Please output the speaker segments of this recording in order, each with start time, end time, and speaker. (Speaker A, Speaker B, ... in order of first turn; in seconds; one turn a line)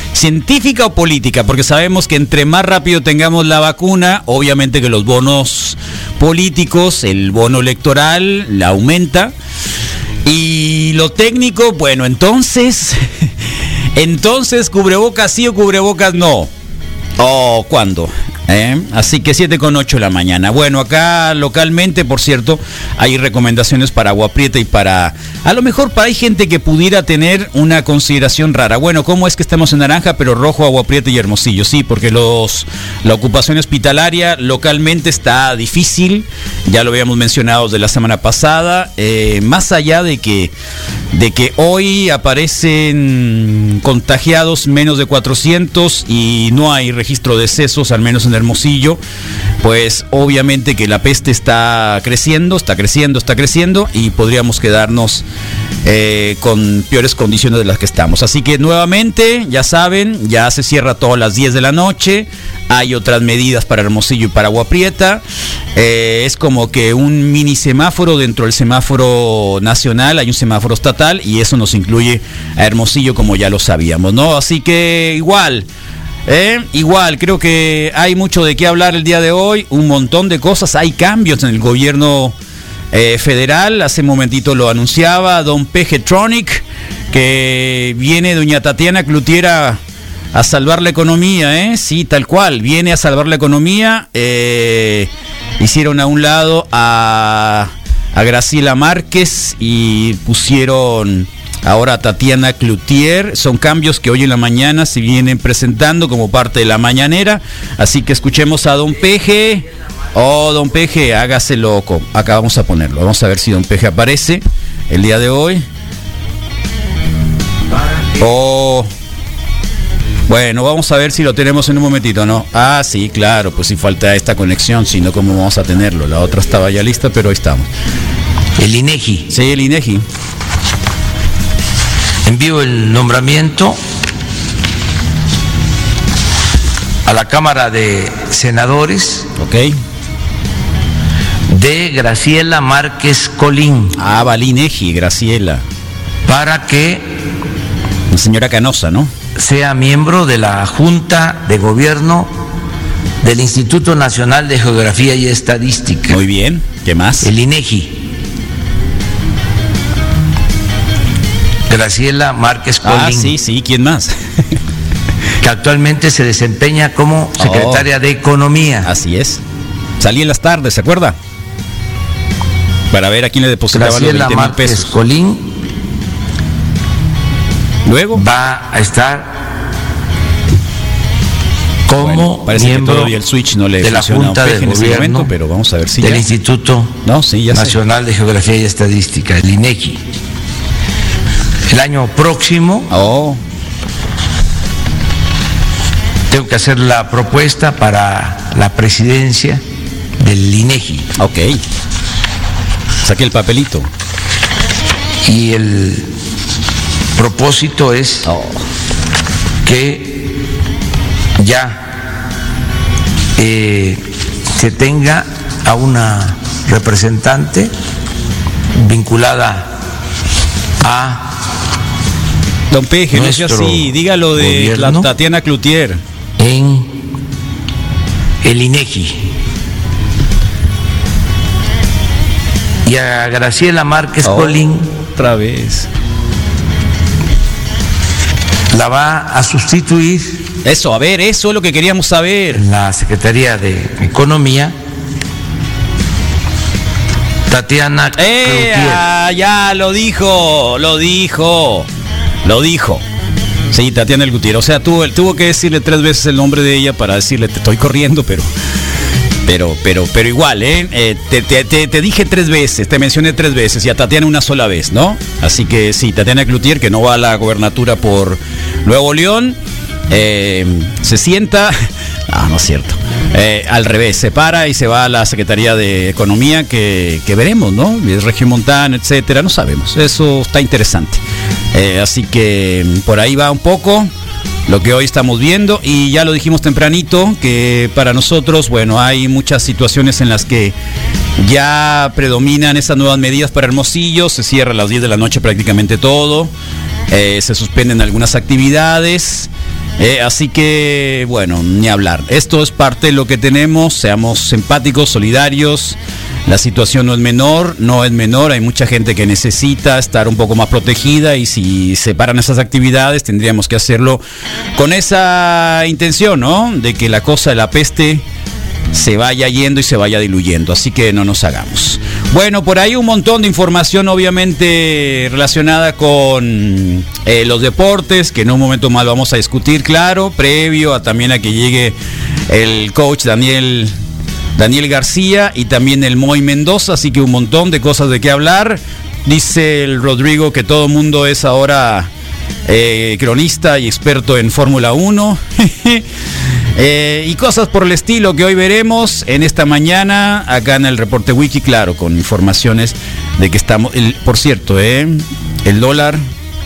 Speaker A: 0.1-9.3
Speaker A: 10.2-13.0
Speaker A: 13.9-16.5
Speaker A: 17.2-40.5
Speaker A: 41.1-49.0
Speaker A: 49.6-55.2
Speaker A: 55.8-65.2
Speaker A: 65.8-75.7
Speaker A: 76.2-82.3
Speaker A: 82.9-89.8
Speaker A: 90.3-115.7
Speaker A: 118.2-118.9
Speaker A: 120.3-127.7
Speaker B: 128.6-129.3
Speaker A: 129.3-130.0
Speaker B: 132.2-133.8
Speaker B: 137.1-139.3
Speaker A: 139.4-139.8
Speaker B: 141.5-143.9
Speaker A: 143.9-145.6
Speaker B: 146.3-147.1
Speaker A: 148.1-149.1
Speaker B: 149.4-152.3
Speaker B: 153.2-156.2
Speaker A: 156.1-157.3
Speaker B: 157.2-158.0
Speaker B: 161.7-163.3
Speaker A: 162.8-164.1
Speaker B: 165.4-168.9
Speaker A: 167.4-167.9
Speaker A: 168.8-169.4
Speaker A: 170.0-171.2
Speaker A: 172.9-174.9
Speaker B: 173.7-175.4
Speaker A: 177.8-178.2
Speaker B: 178.1-179.3
Speaker B: 181.9-183.1
Speaker A: 182.0-186.2
Speaker B: 183.8-185.3
Speaker B: 186.0-187.0
Speaker A: 187.0-187.8
Speaker B: 187.5-190.0
Speaker B: 191.7-192.9
Speaker A: 192.9-193.4
Speaker B: 196.3-199.6
Speaker B: 200.2-201.1
Speaker A: 201.2-201.6
Speaker A: 203.0-203.9
Speaker B: 205.2-206.1
Speaker B: 207.2-208.3
Speaker A: 208.2-208.6
Speaker B: 209.6-210.3
Speaker B: 211.4-211.8
Speaker B: 213.4-214.0
Speaker B: 214.5-217.7
Speaker B: 218.7-219.7
Speaker B: 220.8-221.3
Speaker A: 222.7-226.0
Speaker B: 223.1-225.1
Speaker B: 226.4-226.9
Speaker B: 228.4-229.2
Speaker B: 232.8-234.9
Speaker A: 234.2-235.9
Speaker B: 238.7-240.4
Speaker A: 240.6-242.6
Speaker B: 242.5-244.8
Speaker B: 247.5-249.0
Speaker A: 248.2-251.9
Speaker A: 252.4-253.0
Speaker A: 253.7-258.5
Speaker A: 259.4-269.6
Speaker A: 270.1-271.8
Speaker A: 272.3-281.2
Speaker A: 281.7-284.1
Speaker A: 284.7-290.7
Speaker A: 291.4-296.5
Speaker A: 297.1-314.2
Speaker A: 314.8-318.2
Speaker A: 318.9-331.9
Speaker A: 332.5-333.9
Speaker A: 334.6-342.1
Speaker A: 342.7-346.0
Speaker A: 346.8-356.2